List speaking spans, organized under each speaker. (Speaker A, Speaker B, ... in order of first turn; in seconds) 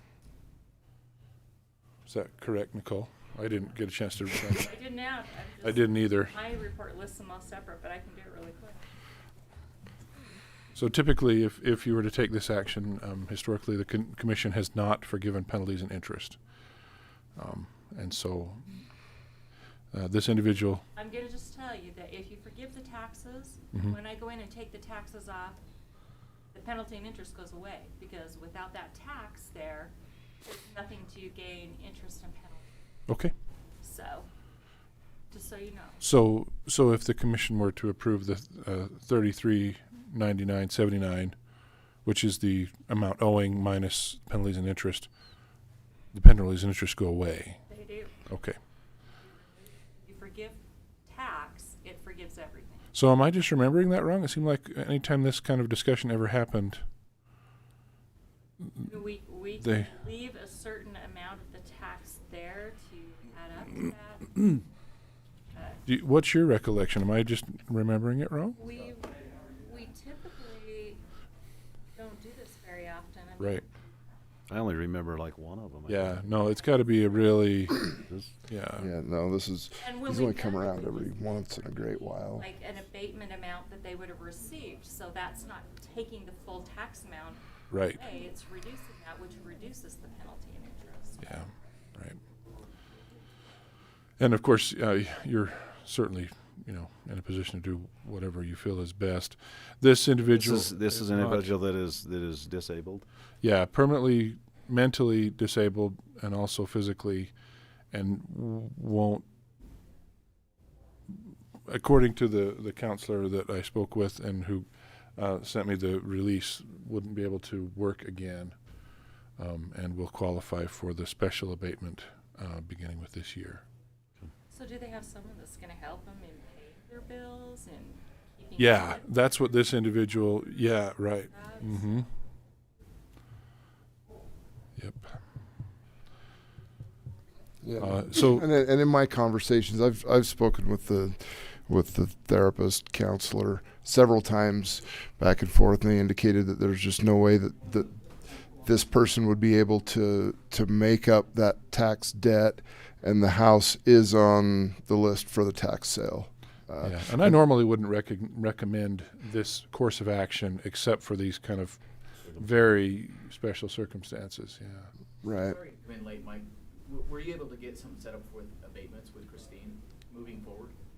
Speaker A: 2.0-4.7, 5.6-6.3, 10.7-16.4, 17.3-18.8, 19.9-20.8, 33.1-33.3, 36.0-45.5, 46.1-47.6, 48.2-48.6, 52.9-56.8, 59.6-59.9, 65.8-68.6, 75.9-78.9, 87.7-88.0, 91.2-92.2, 94.2-101.5, 103.4-109.2, 111.7-123.6, 128.6-132.1, 134.8-135.2, 137.8-138.4, 156.8-164.9
Speaker B: 4.5-8.9, 20.9-25.6, 26.5-32.7, 33.8-34.3, 35.3-36.0, 47.7-48.5, 49.1-52.9, 58.8-64.6, 65.5-65.8, 68.6-71.0, 71.9-73.7, 79.8-81.5, 82.3-91.3, 124.5-129.2, 131.3-131.9
Speaker C: 74.5-76.3, 78.0-78.3, 100.3-103.0
Speaker D: 78.7-82.5, 137.6-157.4, 165.2-165.6
Speaker E: 165.5-170.7